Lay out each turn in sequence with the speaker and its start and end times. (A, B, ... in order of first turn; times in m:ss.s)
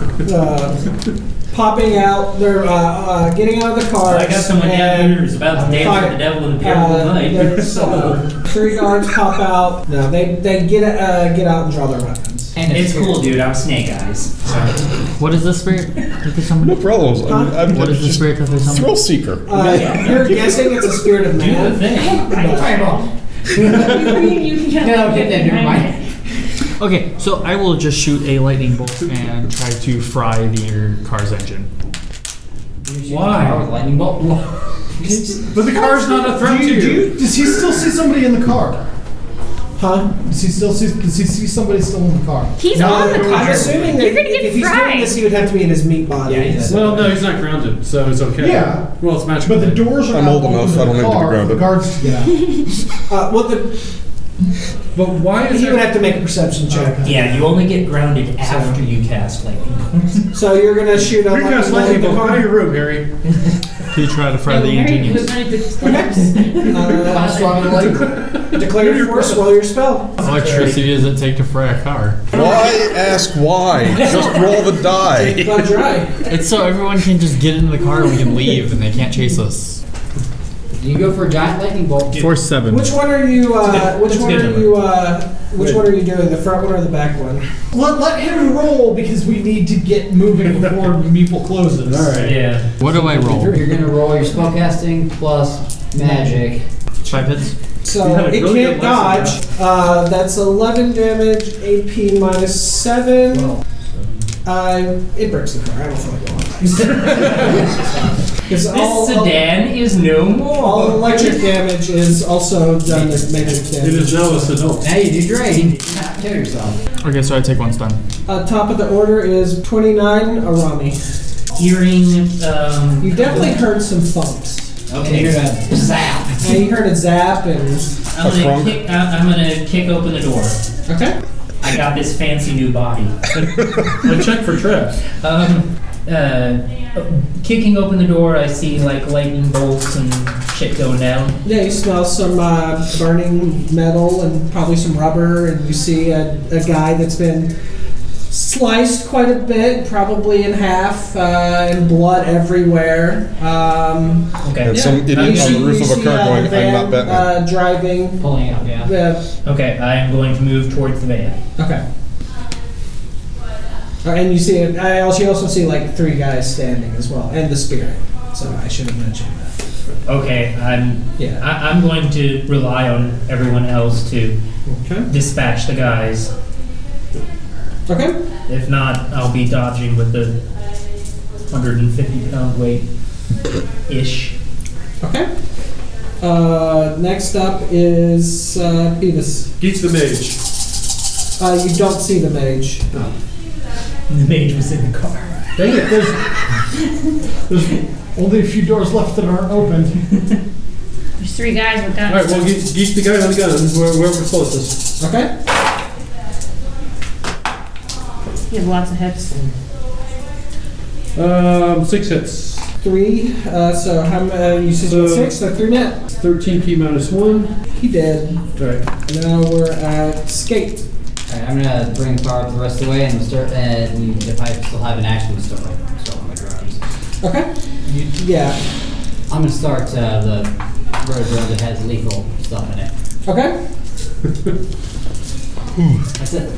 0:00.2-0:00.9 A
0:01.5-0:12.6 A
0:04.0-0:08.1 B
0:07.7-0:08.2 C
0:12.6-0:13.3 D
0:12.7-0:14.5 B
0:15.2-0:16.9 E
0:16.6-0:20.6 F
0:17.3-0:17.9 A
0:17.6-0:19.1 E
0:19.5-0:22.8 A
0:19.6-0:20.4 B
0:21.4-0:22.2 B
0:21.9-0:26.1 G
0:22.4-0:25.9 D
0:26.8-0:31.7 E
0:32.8-0:34.5 D
0:33.0-0:33.6 C
0:33.1-0:33.6 B
0:35.0-0:37.2 C
0:35.1-0:38.9 H
0:39.8-0:40.1 A
0:40.1-0:44.0 H
0:42.6-0:45.2 G
0:42.7-0:46.9 A
0:46.2-0:47.2 D
0:46.6-0:50.0 C
0:48.4-0:52.8 H
0:50.1-0:51.8 F
0:53.1-0:53.8 A
0:54.9-0:56.1 C
0:55.5-0:57.2 A
0:56.7-0:57.4 H
0:57.0-1:00.2 B
0:58.4-0:58.8 A
1:00.3-1:02.6 A
1:01.0-1:03.1 C
1:03.9-1:05.4 E
1:04.4-1:06.9 G
1:05.8-1:07.5 A
1:07.0-1:08.2 D
1:07.5-1:09.6 C
1:08.5-1:10.2 A
1:10.2-1:12.4 E
1:10.3-1:10.7 B
1:10.4-1:10.8 C
1:12.3-1:15.9 F
1:14.0-1:14.3 B
1:15.1-1:16.2 A
1:16.2-1:19.8 E
1:20.8-1:22.3 D
1:22.1-1:23.0 E
1:22.7-1:27.5 A
1:23.6-1:24.8 B
1:25.6-1:25.9 C
1:27.7-1:32.2 H
1:31.8-1:32.6 C
1:32.2-1:32.7 B
1:32.8-1:33.6 E
1:32.8-1:36.6 D
1:37.1-1:37.6 E
1:37.8-1:43.6 A
1:38.0-1:39.4 C
1:44.4-1:47.9 A
1:47.0-1:47.5 B
1:48.4-1:49.4 A
1:48.6-1:51.4 B
1:50.6-1:54.6 A
1:53.8-1:55.0 C
1:54.8-1:56.8 D
1:55.6-1:56.2 B
1:57.0-1:58.0 E
1:58.3-2:01.0 A
2:01.6-2:03.6 B
2:03.0-2:04.7 A
2:04.9-2:05.6 B
2:05.0-2:06.6 D
2:06.4-2:07.9 A
2:08.1-2:10.6 B
2:08.2-2:08.8 F
2:10.9-2:11.2 A
2:11.6-2:13.2 B
2:13.3-2:15.0 C
2:15.1-2:21.4 B
2:21.4-2:27.5 A
2:28.3-2:39.2 A
2:34.4-2:35.6 B
2:34.6-2:37.4 F
2:38.2-2:38.9 D
2:39.4-2:41.4 B
2:41.6-2:41.8 A
2:44.0-2:49.5 A
2:50.1-2:54.4 B
2:54.7-2:55.1 A
2:55.1-2:56.3 B
2:57.9-2:58.2 A
2:58.5-3:00.4 B
3:01.5-3:02.9 B
3:03.9-3:04.4 B
3:05.0-3:05.3 A
3:06.2-3:09.5 A
3:09.6-3:10.4 C
3:11.4-3:12.9 A
3:14.1-3:15.7 B
3:15.6-3:16.2 C
3:15.7-3:16.2 H
3:17.5-3:20.3 H
3:21.2-3:22.5 G
3:22.1-3:24.9 C
3:25.0-3:25.3 A
3:28.5-3:29.3 G
3:31.2-3:32.7 C
3:32.8-3:36.0 A
3:34.8-3:35.4 C
3:36.2-3:37.6 C
3:37.7-3:38.4 A
3:38.6-3:38.9 C
3:39.0-3:40.9 A
3:41.3-3:46.8 D
3:47.2-3:48.6 A
3:49.3-3:52.9 D
3:53.2-3:53.6 A
3:56.2-3:56.5 D